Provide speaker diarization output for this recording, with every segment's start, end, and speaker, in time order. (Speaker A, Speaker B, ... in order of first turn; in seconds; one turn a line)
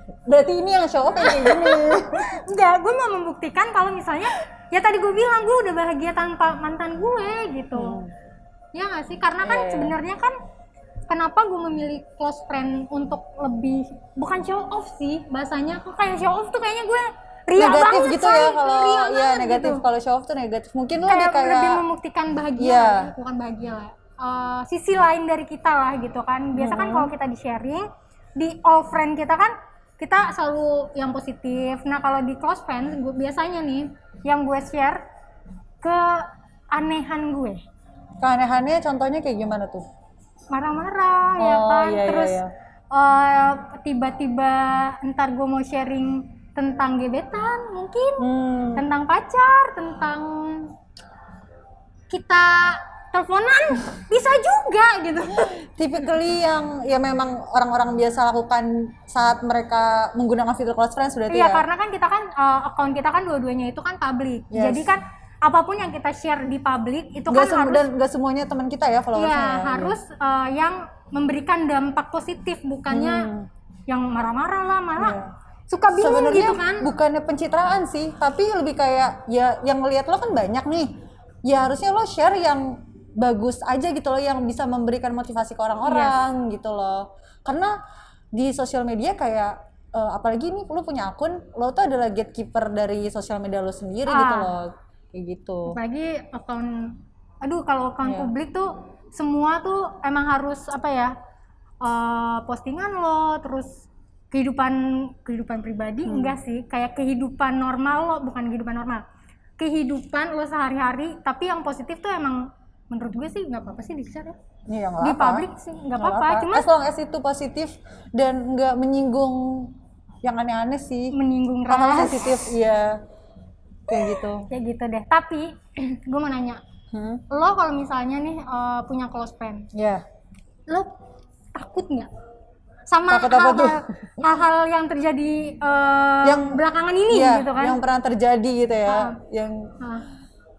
Speaker A: 0.3-2.3
Speaker B: 1.2-8.0
Speaker A: 7.7-8.1
Speaker B: 8.7-10.4
Speaker A: 9.4-10.0
Speaker B: 11.1-19.8
Speaker A: 17.6-21.8
Speaker B: 21.1-35.0
Speaker A: 22.6-23.1
Speaker A: 26.6-27.1
Speaker B: 35.8-37.6
Speaker A: 38.2-39.9
Speaker B: 40.5-50.7
Speaker A: 41.4-42.5
Speaker A: 48.2-48.9
Speaker B: 52.1-55.6
Speaker A: 55.4-61.6
Speaker B: 61.3-67.9
Speaker A: 64.5-64.9
Speaker A: 67.3-70.0
Speaker B: 69.2-73.3
Speaker A: 72.9-73.5
Speaker B: 73.9-75.2
Speaker A: 75.0-75.3
Speaker B: 75.7-76.9
Speaker A: 75.9-80.9
Speaker A: 81.5-87.7
Speaker B: 85.9-86.2
Speaker A: 88.3-95.8
Speaker B: 94.1-94.5
Speaker B: 95.7-101.1
Speaker A: 98.0-98.3
Speaker B: 101.8-109.0
Speaker A: 106.1-106.4
Speaker B: 109.6-114.4
Speaker A: 114.7-121.2
Speaker B: 115.0-116.7
Speaker B: 121.1-122.5
Speaker A: 121.7-123.0
Speaker A: 123.9-124.5
Speaker B: 123.9-126.6
Speaker A: 126.9-127.2
Speaker B: 127.3-129.7
Speaker A: 129.7-130.0
Speaker B: 131.5-132.1
Speaker B: 132.9-137.8
Speaker A: 133.1-133.8
Speaker A: 136.2-139.7
Speaker B: 138.9-139.2
Speaker B: 139.8-140.1